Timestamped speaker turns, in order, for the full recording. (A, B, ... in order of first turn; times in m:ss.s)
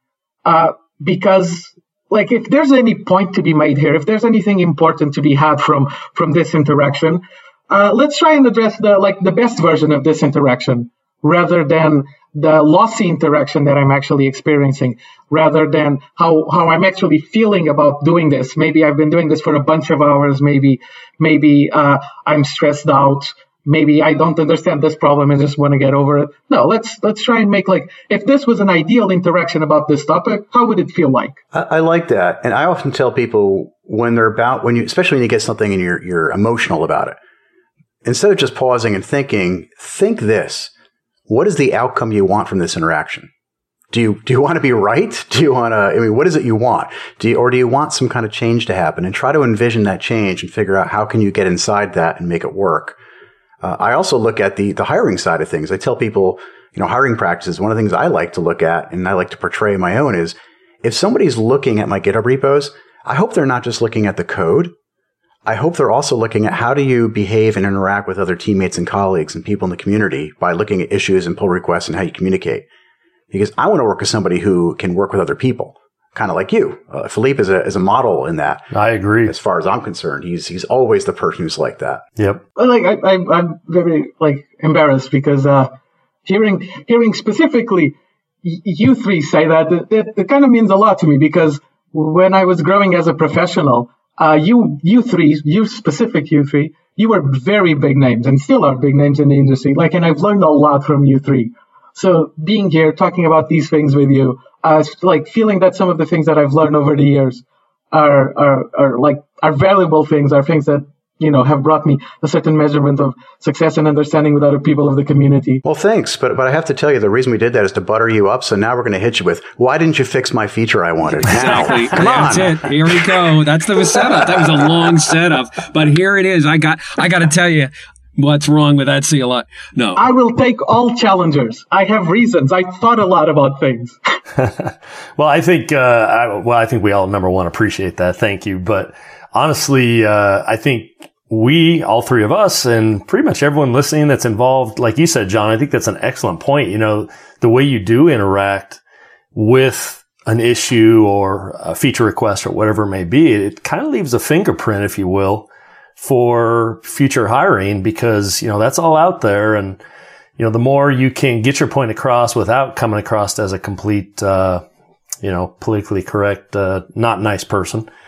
0:00.4-0:31.4 A
0:31.5-0:37.2 B
0:38.0-0:40.7 B
0:41.3-0:43.3 B
0:43.9-0:53.0 B
0:53.6-1:04.7 B
1:05.5-1:12.6 B
1:13.3-1:18.7 B
1:18.7-1:19.3 C
1:19.2-1:22.0 B
1:22.2-1:22.4 C
1:22.6-1:25.7 A
1:26.2-1:55.6 A
1:55.6-2:03.2 B
2:01.2-2:10.0 D
2:01.3-2:02.0 C
2:04.2-2:04.7 B
2:10.0-2:14.0 A
2:14.4-2:28.8 C
2:29.4-2:35.5 C
2:36.0-2:39.8 C
2:40.4-2:44.6 C
2:45.2-2:47.9 C